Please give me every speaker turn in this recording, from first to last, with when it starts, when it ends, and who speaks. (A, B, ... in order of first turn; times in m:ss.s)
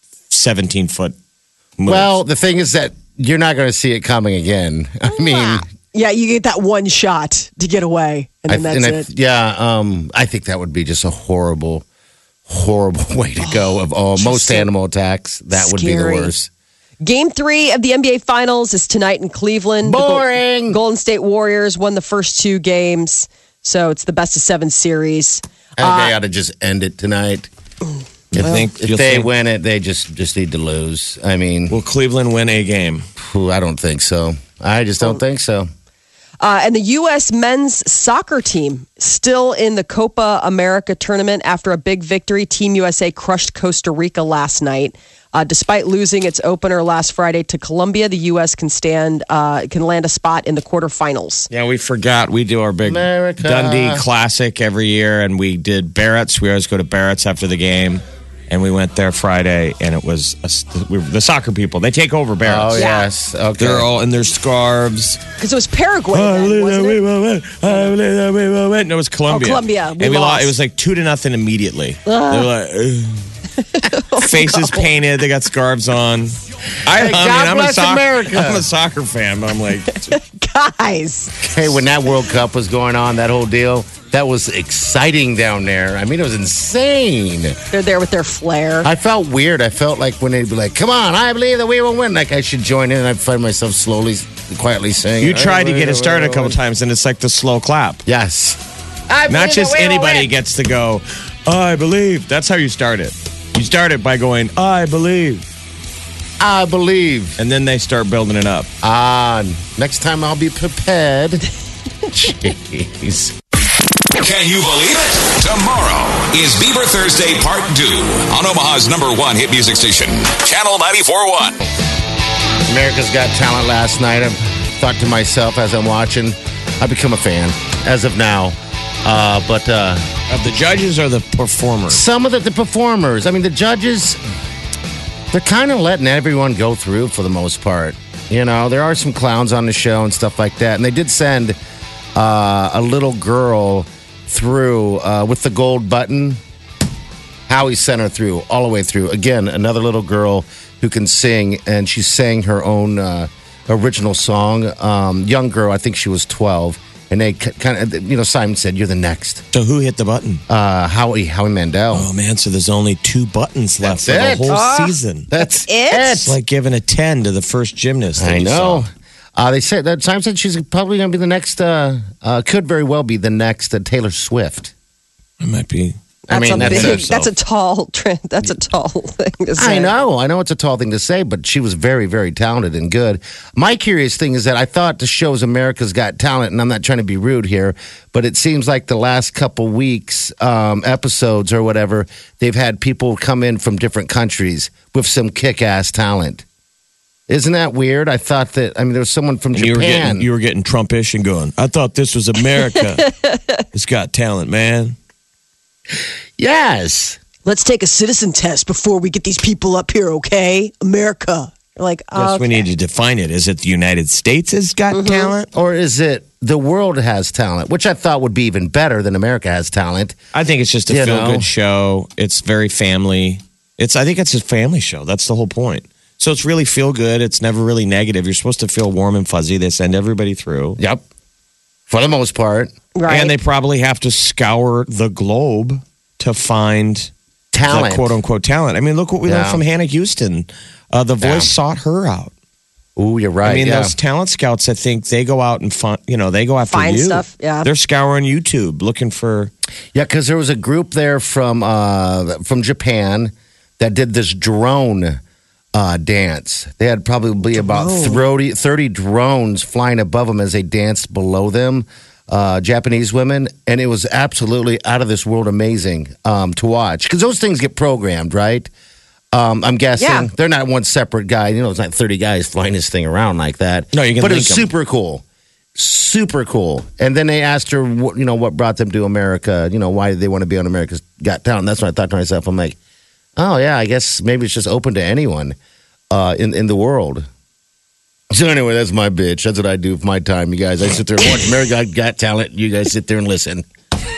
0:00.3-0:01.1 A
0:01.8-0:02.2 A
0:01.8-0:05.6 B
0:05.1-0:09.1 C
0:08.5-0:11.8 B
0:12.5-0:16.5 B
0:13.4-0:14.7 C
0:15.5-0:16.3 C
0:17.0-0:26.2 C
0:19.8-0:20.8 B
0:25.8-0:27.5 B
0:28.3-0:29.3 A
0:28.3-0:31.8 B
0:31.7-0:33.0 A
0:33.2-0:35.7 B
0:36.4-0:51.5 C
0:51.5-1:02.8 A
0:52.8-0:54.0 B
1:02.4-1:03.9 B
1:02.7-1:03.1 C
1:03.6-1:05.2 A
1:05.4-1:07.0 C
1:06.1-1:13.2 A
1:09.3-1:10.5 C
1:12.0-1:12.5 C
1:13.6-1:14.8 C
1:14.2-1:20.2 A
1:16.9-1:18.6 B
1:19.9-1:21.5 C
1:21.4-1:27.6 B
1:27.7-1:28.9 C
1:28.8-1:36.6 B
1:35.2-1:38.0 A
1:38.0-1:40.3 B
1:39.3-1:45.4 A
1:46.4-1:47.4 B
1:47.4-1:48.7 A
1:48.8-1:51.5 B
1:52.1-1:53.4 B
1:54.1-2:01.6 D
2:02.7-2:10.1 B
2:10.3-2:12.0 A
2:11.9-2:14.2 B
2:15.3-2:21.6 B
2:22.2-2:26.4 B
2:27.5-2:39.4 B
2:39.5-2:40.4 A
2:40.5-2:42.1 B
2:41.9-2:45.3 A
2:43.8-2:44.6 B
2:44.5-2:46.2 C
2:45.3-2:46.4 B
2:46.2-2:48.8 A
2:48.2-2:54.7 B
2:55.4-2:57.3 A
2:56.3-2:59.9 C
2:56.3-2:57.0 B
2:59.6-3:16.4 B
3:17.3-3:20.3 B
3:19.5-3:23.1 A
3:23.0-3:23.4 C
3:23.7-3:25.0 A
3:26.4-3:27.2 B
3:27.4-3:32.6 C
3:32.1-3:35.5 A
3:34.9-3:35.3 C
3:35.5-3:40.2 B
3:40.3-3:50.8 A
3:40.9-3:41.5 B
3:50.8-3:51.0 B
3:51.9-3:52.7 B
3:52.9-3:53.3 C
3:53.1-3:57.1 A
3:57.5-3:58.2 B
3:57.6-4:02.3 A
3:59.2-3:59.6 B
4:01.2-4:01.5 B
4:03.0-4:03.9 B
4:03.4-4:09.5 A
4:06.7-4:07.7 C
4:09.9-4:15.2 B
4:15.7-4:28.7 B
4:17.5-4:18.2 C
4:29.3-4:35.2 B
4:30.0-4:30.3 C
4:33.9-4:34.7 A
4:35.7-4:42.8 B
4:43.4-4:45.5 B
4:46.1-4:47.2 B
4:48.3-4:53.6 B